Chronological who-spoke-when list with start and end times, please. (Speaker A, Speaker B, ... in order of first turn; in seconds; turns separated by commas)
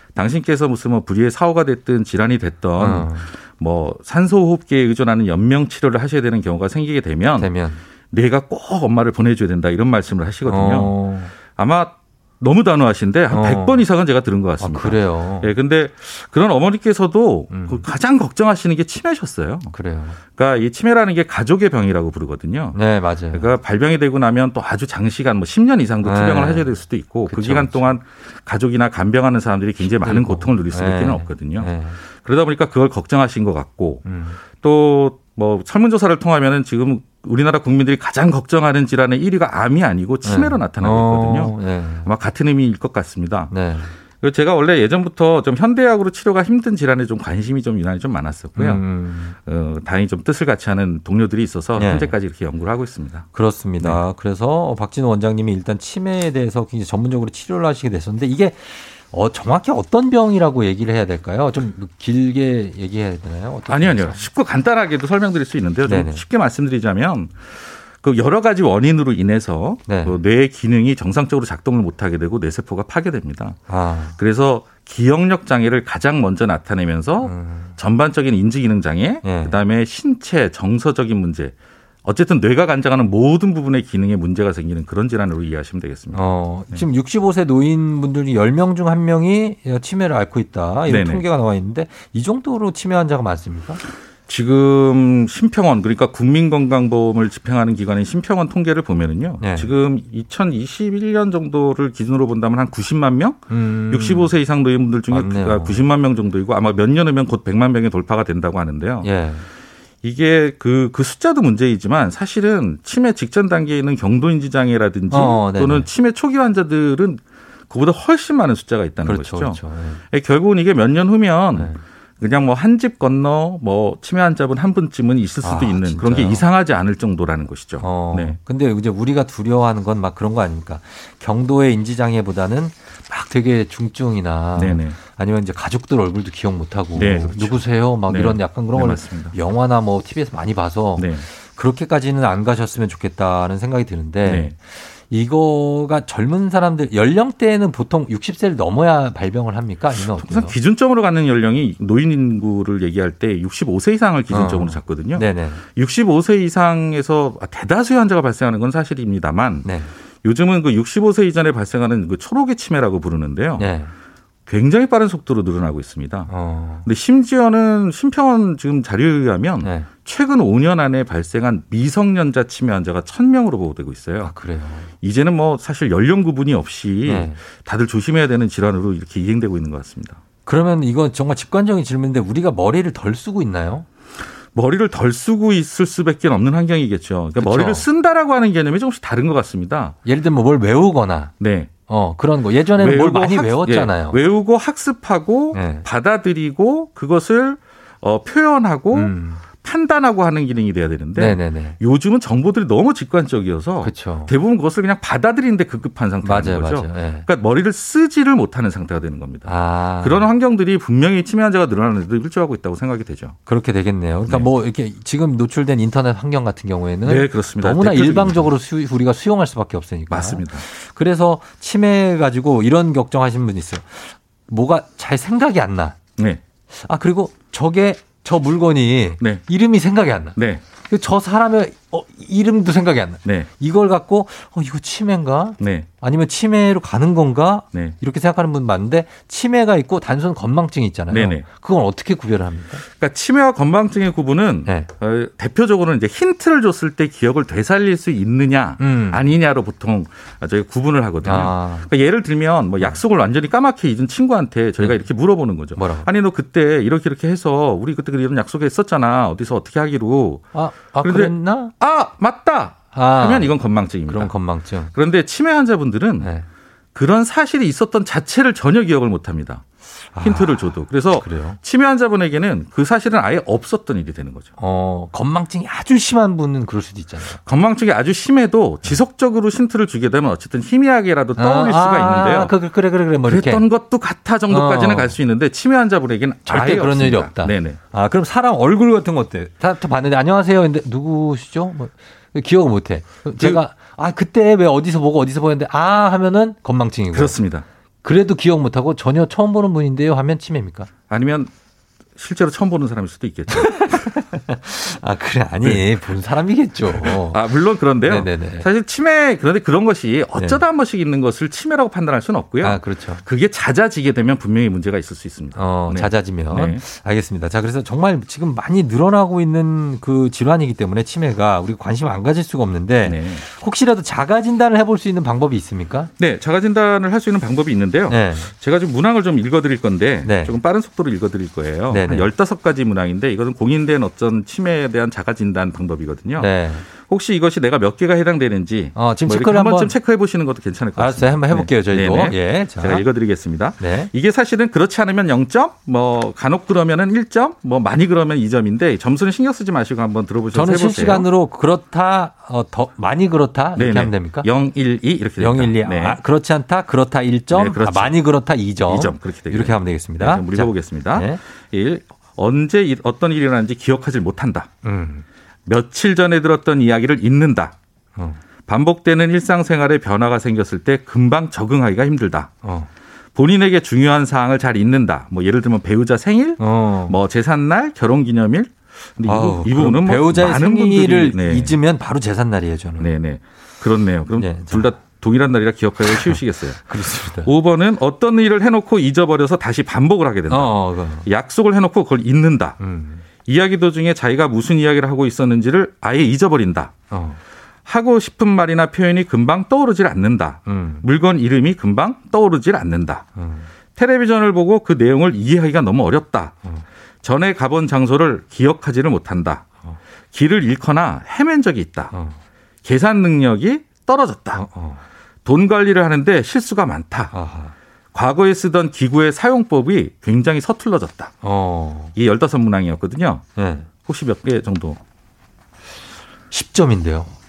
Speaker A: 0.1-7.5, Speaker B: 2.8-3.3, Speaker B: 7.4-7.8, Speaker A: 8.1-10.9, Speaker B: 10.5-11.3, Speaker A: 11.5-19.7, Speaker B: 13.3-13.8, Speaker B: 14.6-15.5, Speaker B: 17.5-17.8, Speaker B: 19.7-20.2, Speaker A: 20.3-22.8, Speaker B: 22.7-23.5, Speaker A: 23.3-34.0, Speaker B: 26.0-26.7, Speaker B: 27.3-27.9, Speaker B: 29.9-32.0, Speaker B: 34.0-34.4, Speaker A: 34.6-43.5, Speaker B: 40.2-42.1, Speaker B: 43.5-43.9, Speaker A: 44.2-48.8, Speaker B: 48.5-49.3, Speaker A: 49.4-53.3, Speaker B: 51.8-52.1, Speaker B: 53.3-64.2, Speaker A: 63.7-73.6, Speaker B: 65.8-66.2, Speaker B: 69.9-70.2, Speaker B: 73.7-74.2, Speaker A: 74.2-86.2, Speaker B: 77.2-77.7, Speaker B: 79.2-79.6, Speaker B: 86.1-93.8, Speaker A: 90.9-91.2, Speaker A: 94.3-109.1, Speaker B: 99.4-99.7, Speaker B: 103.5-104.3, Speaker B: 105.1-105.8, Speaker B: 109.0-109.5, Speaker A: 110.0-119.6, Speaker B: 115.1-115.9, Speaker B: 119.0-120.0, Speaker A: 120.1-128.4, Speaker B: 121.5-121.8, Speaker B: 125.4-126.4, Speaker B: 127.8-150.6, Speaker A: 134.6-135.0, Speaker A: 136.9-139.3, Speaker A: 141.0-141.2, Speaker A: 144.2-144.5, Speaker A: 150.1-159.7, Speaker B: 154.3-155.6, Speaker B: 159.6-159.9, Speaker A: 160.2-163.7, Speaker B: 163.6-163.9, Speaker A: 164.5-166.3, Speaker B: 166.3-166.8, Speaker A: 166.8-174.3, Speaker B: 169.6-169.9, Speaker B: 174.2-174.9, Speaker A: 175.0-180.2, Speaker B: 177.1-177.4, Speaker B: 180.4-183.8, Speaker A: 184.5-189.9, Speaker B: 187.4-187.8, Speaker B: 190.0-191.3, Speaker A: 191.4-191.7, Speaker B: 191.9-194.2, Speaker A: 192.8-213.4, Speaker B: 195.5-195.8, Speaker B: 198.9-199.4, Speaker B: 201.2-201.8, Speaker B: 203.8-204.3, Speaker B: 206.2-207.2, Speaker B: 209.4-210.3, Speaker B: 213.5-226.0, Speaker A: 217.1-218.5, Speaker A: 220.1-220.6, Speaker B: 226.7-230.4, Speaker A: 230.3-230.6, Speaker B: 230.9-242.8, Speaker A: 235.6-235.9, Speaker A: 241.1-241.4, Speaker A: 243.0-260.4, Speaker B: 248.8-249.2, Speaker B: 251.2-251.9, Speaker B: 255.8-256.1, Speaker B: 260.5-261.7, Speaker A: 261.0-264.3, Speaker B: 262.9-263.5, Speaker B: 264.1-264.9, Speaker A: 264.9-266.3, Speaker A: 266.9-269.6, Speaker B: 270.1-271.6, Speaker A: 270.2-274.5, Speaker B: 274.6-277.4, Speaker A: 277.4-282.5, Speaker B: 281.4-283.6, Speaker A: 283.2-287.8, Speaker B: 284.5-285.1, Speaker B: 286.5-297.4, Speaker A: 293.4-293.6, Speaker A: 297.1-297.6, Speaker B: 298.0-300.9, Speaker A: 301.1-301.5, Speaker A: 302.1-304.2, Speaker B: 303.5-307.4, Speaker A: 306.9-316.8, Speaker B: 308.0-308.7, Speaker B: 310.4-310.6, Speaker B: 312.6-313.2, Speaker B: 315.5-326.1, Speaker A: 323.0-323.4, Speaker A: 326.2-351.3, Speaker B: 328.1-328.5, Speaker B: 330.2-330.5, Speaker B: 331.9-332.3, Speaker B: 336.4-336.8, Speaker B: 338.9-339.9, Speaker B: 341.0-343.0, Speaker B: 343.8-344.1, Speaker B: 350.5-354.5, Speaker A: 353.8-356.2, Speaker B: 355.4-361.4, Speaker A: 357.5-358.2, Speaker A: 358.8-364.7, Speaker B: 364.8-365.2, Speaker A: 365.6-367.7, Speaker A: 368.7-372.5, Speaker B: 372.6-372.9, Speaker A: 373.3-381.8, Speaker B: 376.6-377.2, Speaker B: 379.2-383.1, Speaker A: 383.0-392.8, Speaker B: 384.4-384.9, Speaker B: 386.0-387.5, Speaker B: 390.5-391.3, Speaker B: 392.8-393.2, Speaker A: 393.4-396.9, Speaker B: 397.1-397.4, Speaker A: 397.9-403.2, Speaker B: 400.7-401.0, Speaker B: 403.4-403.6, Speaker A: 403.9-406.6, Speaker A: 407.2-409.6, Speaker A: 410.3-412.1, Speaker B: 412.1-412.4, Speaker A: 412.8-414.6, Speaker B: 414.5-415.0, Speaker A: 415.4-417.3, Speaker B: 417.3-417.7, Speaker A: 418.1-421.3, Speaker B: 421.4-422.1, Speaker A: 422.1-423.4, Speaker B: 423.6-423.9, Speaker A: 424.0-425.0, Speaker B: 426.5-427.3